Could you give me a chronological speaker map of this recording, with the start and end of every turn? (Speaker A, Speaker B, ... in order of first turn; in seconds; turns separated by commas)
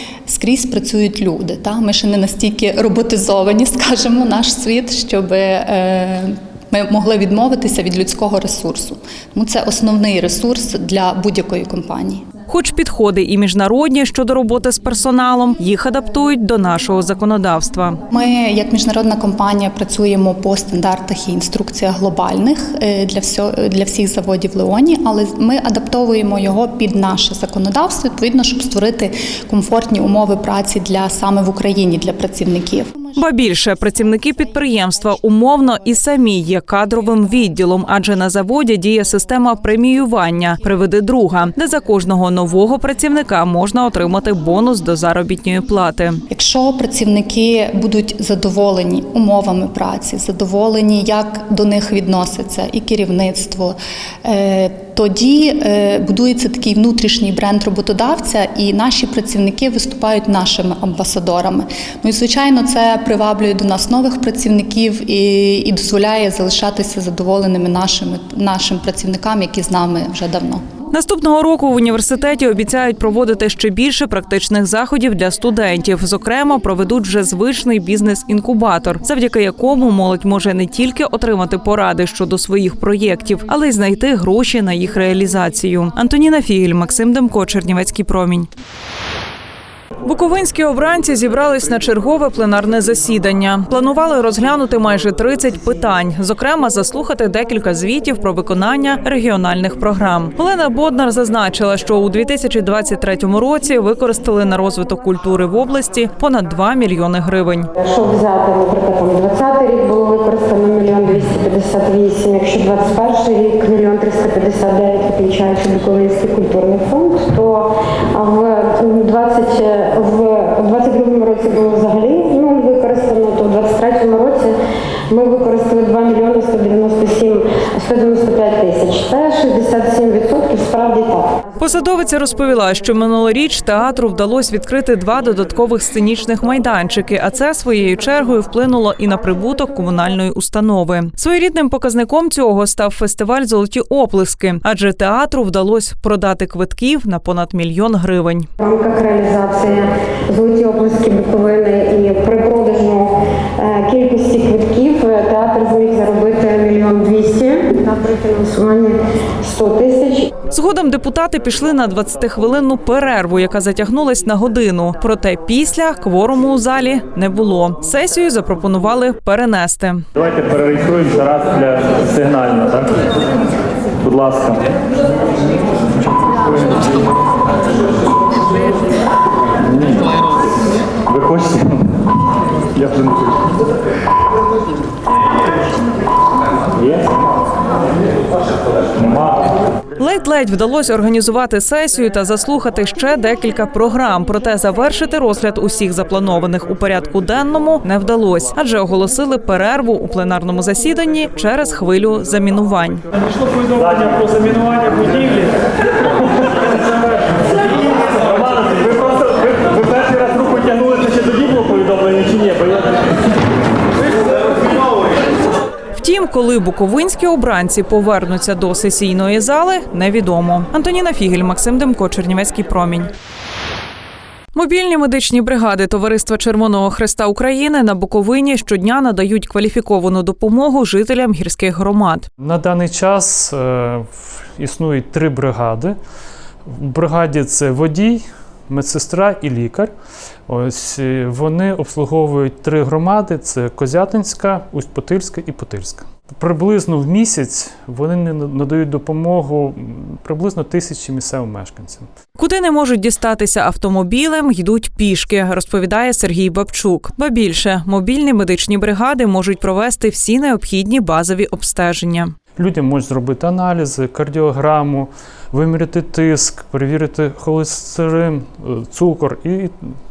Speaker A: 0.3-12.2, Speaker B: 12.5-18.0, Speaker A: 18.1-33.1, Speaker B: 33.1-46.2, Speaker A: 46.3-70.6, Speaker B: 70.9-88.5, Speaker B: 90.0-107.7, Speaker C: 107.8-124.5, Speaker C: 125.1-131.4, Speaker B: 131.6-148.5, Speaker C: 148.6-160.2, Speaker B: 160.5-170.1, Speaker D: 170.1-173.1, Speaker D: 174.0-174.7, Speaker D: 176.3-177.0, Speaker D: 179.6-180.5, Speaker D: 181.0-181.9, Speaker D: 182.7-183.6, Speaker D: 186.7-187.3, Speaker D: 188.9-189.5, Speaker B: 190.0-203.0, Speaker D: 203.2-213.2, Speaker B: 215.9-223.1, Speaker B: 224.5-232.3, Speaker E: 232.4-236.0, Speaker E: 236.7-239.9, Speaker E: 240.5-252.1, Speaker B: 252.4-262.3, Speaker E: 262.6-269.8